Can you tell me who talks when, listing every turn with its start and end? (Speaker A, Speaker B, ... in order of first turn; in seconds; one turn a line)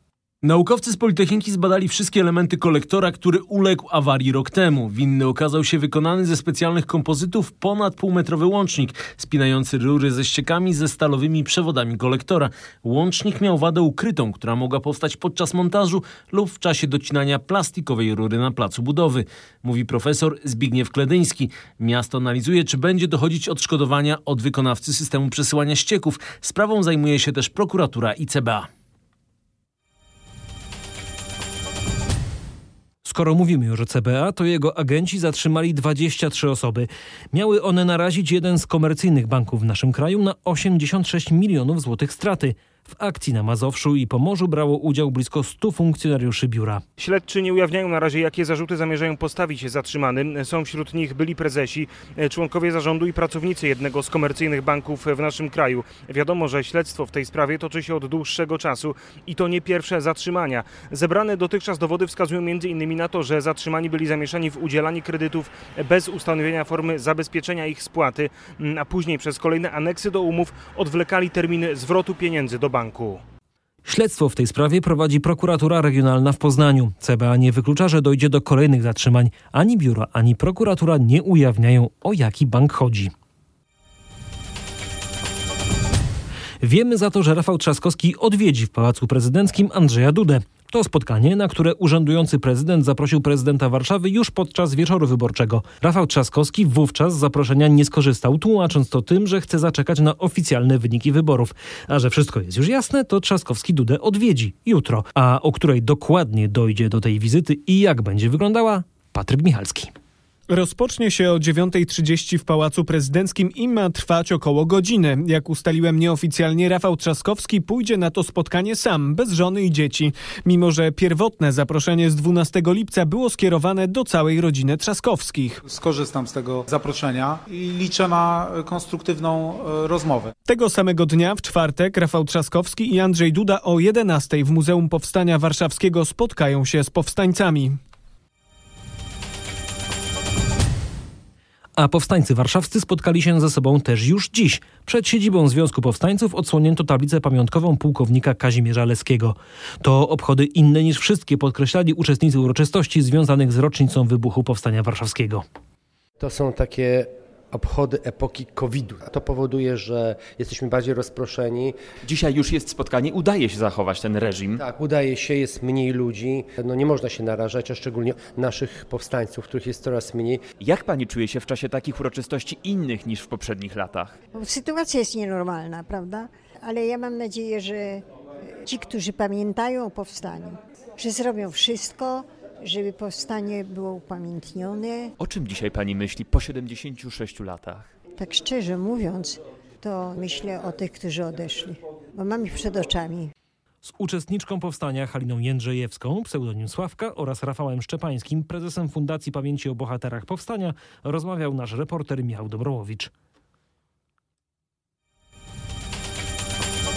Speaker A: 0.4-28.7
Speaker B: 33.0-46.8
Speaker C: 47.0-73.2
Speaker B: 73.8-83.1
Speaker B: 86.6-109.9
Speaker D: 110.5-125.6
Speaker E: 125.6-130.3
Speaker D: 130.4-137.8
Speaker B: 141.8-155.4
Speaker F: 156.2-161.8
Speaker G: 162.0-164.6
Speaker F: 164.6-170.4
Speaker G: 170.6-174.2
Speaker H: 174.3-178.0
Speaker H: 178.6-185.1
Speaker G: 185.2-187.9
Speaker H: 188.1-193.3
Speaker B: 193.8-203.1